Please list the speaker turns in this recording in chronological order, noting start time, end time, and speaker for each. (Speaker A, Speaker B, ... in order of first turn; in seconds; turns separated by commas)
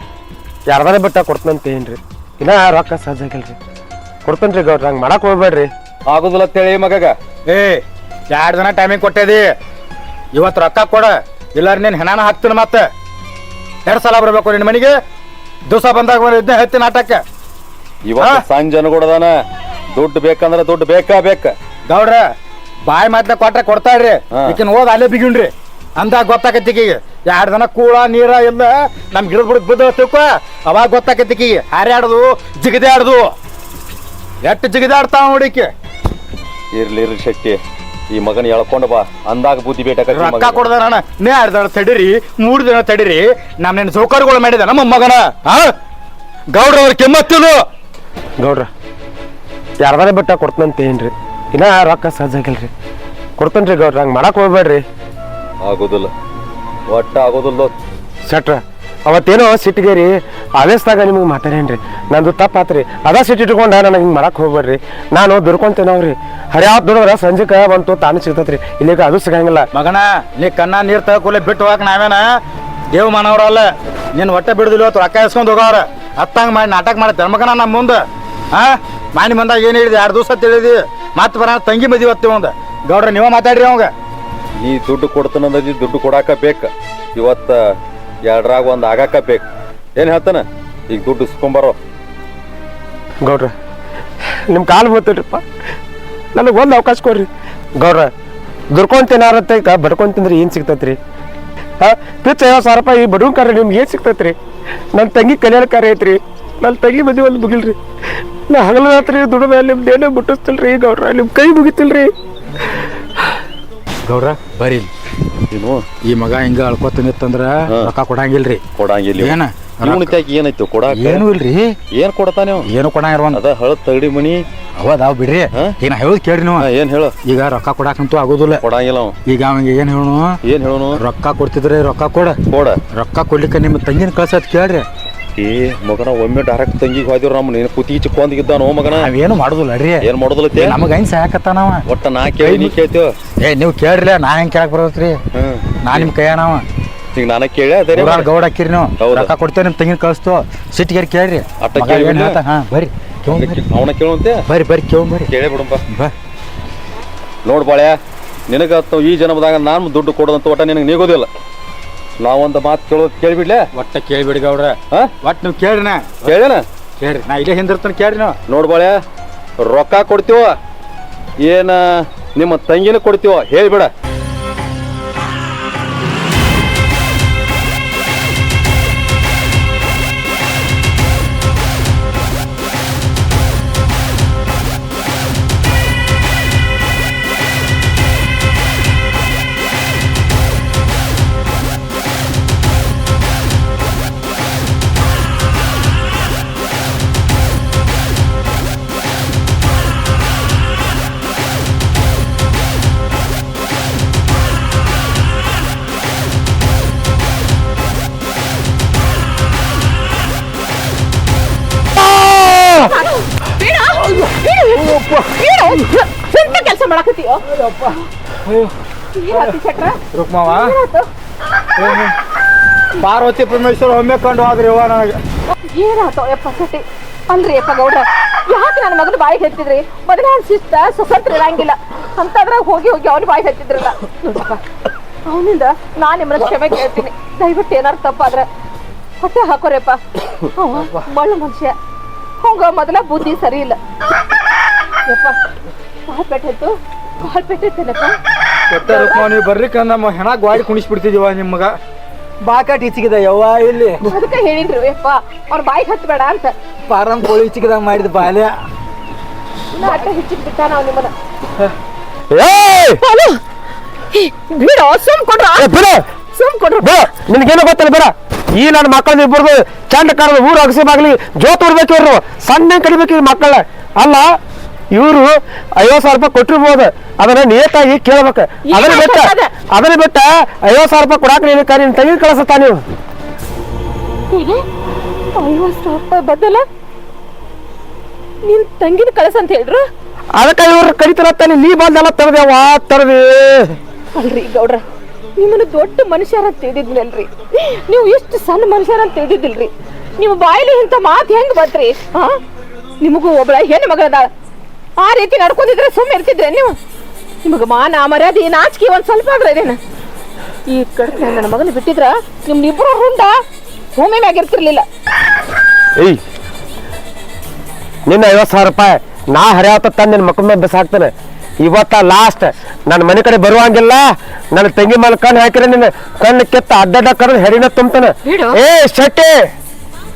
Speaker A: 0.7-3.6, Speaker A: 4.2-5.7, Speaker B: 6.1-7.1, Speaker C: 7.5-9.4, Speaker C: 10.3-12.8, Speaker C: 13.9-14.9, Speaker C: 15.7-17.2, Speaker B: 18.1-19.3, Speaker C: 18.2-18.4, Speaker B: 19.9-21.5, Speaker C: 21.9-22.2, Speaker C: 22.9-33.3, Speaker C: 34.4-35.7, Speaker B: 36.7-37.6, Speaker B: 38.1-40.6, Speaker C: 40.1-45.7, Speaker C: 46.5-47.6, Speaker A: 49.9-52.7, Speaker A: 53.4-54.8, Speaker B: 55.6-56.1, Speaker B: 56.9-57.7, Speaker A: 58.3-69.7, Speaker C: 69.7-72.2, Speaker C: 72.9-78.0, Speaker C: 78.5-83.9, Speaker B: 84.7-87.5, Speaker B: 88.3-89.4, Speaker B: 90.0-91.8, Speaker A: 93.2-93.5, Speaker A: 94.5-95.4, Speaker A: 96.3-97.3, Speaker A: 97.8-98.1, Speaker A: 98.8-101.0, Speaker A: 101.8-104.3, Speaker A: 105.0-107.8, Speaker A: 108.5-112.1, Speaker C: 114.1-114.9, Speaker B: 115.5-115.8, Speaker C: 116.1-118.6, Speaker B: 118.8-119.3, Speaker C: 119.2-120.2, Speaker B: 119.9-121.3, Speaker C: 120.9-121.8, Speaker B: 121.9-122.7, Speaker C: 122.7-123.4, Speaker B: 123.3-124.4, Speaker C: 124.8-126.7, Speaker B: 126.7-127.1, Speaker C: 127.2-128.6, Speaker B: 128.6-129.1, Speaker C: 129.3-130.4, Speaker B: 130.5-131.0, Speaker C: 131.0-132.4, Speaker B: 132.5-132.8, Speaker C: 132.9-134.9, Speaker B: 135.4-139.1, Speaker C: 139.0-140.0, Speaker B: 140.0-140.7, Speaker C: 140.6-141.8, Speaker B: 141.9-143.1, Speaker C: 142.4-142.8, Speaker C: 143.4-145.2, Speaker B: 145.3-146.1, Speaker C: 145.8-146.6, Speaker B: 147.1-148.3, Speaker C: 147.9-153.6, Speaker B: 149.0-149.3, Speaker B: 151.6-152.4, Speaker B: 153.3-154.4, Speaker C: 154.5-155.3, Speaker B: 155.3-155.8, Speaker B: 157.5-158.0, Speaker B: 158.5-161.3, Speaker B: 162.2-163.7, Speaker C: 163.8-166.4, Speaker B: 166.2-166.6, Speaker C: 167.0-168.4, Speaker B: 168.5-169.0, Speaker B: 169.7-170.5, Speaker B: 171.4-173.9, Speaker C: 212.1-212.8, Speaker D: 212.9-217.4, Speaker C: 214.8-215.8, Speaker C: 217.6-217.9, Speaker C: 218.5-218.7, Speaker D: 219.2-221.1, Speaker C: 220.1-220.8, Speaker C: 221.8-222.1, Speaker C: 223.0-225.2, Speaker D: 225.7-234.6, Speaker D: 235.3-238.5, Speaker D: 239.2-240.0, Speaker D: 240.5-241.8, Speaker D: 242.4-243.8, Speaker D: 245.1-245.4, Speaker D: 246.1-248.2, Speaker C: 248.7-251.7, Speaker D: 248.8-249.3, Speaker C: 252.4-254.1, Speaker D: 254.0-256.6, Speaker C: 256.9-258.5, Speaker D: 259.7-261.1, Speaker A: 262.3-263.0, Speaker D: 263.0-263.4, Speaker D: 264.1-265.7, Speaker A: 265.6-266.0, Speaker D: 266.4-267.0, Speaker A: 266.8-274.3, Speaker A: 274.9-282.8, Speaker D: 278.7-279.5, Speaker D: 284.3-284.6, Speaker D: 285.4-286.6, Speaker D: 288.5-289.8, Speaker A: 290.4-293.8, Speaker D: 294.2-294.8, Speaker D: 295.4-297.3, Speaker D: 297.9-302.3, Speaker D: 303.0-304.3, Speaker D: 305.0-306.7, Speaker D: 307.4-309.8, Speaker D: 310.7-313.3, Speaker D: 313.9-314.9, Speaker A: 318.1-321.1, Speaker A: 321.6-329.3, Speaker D: 328.2-328.6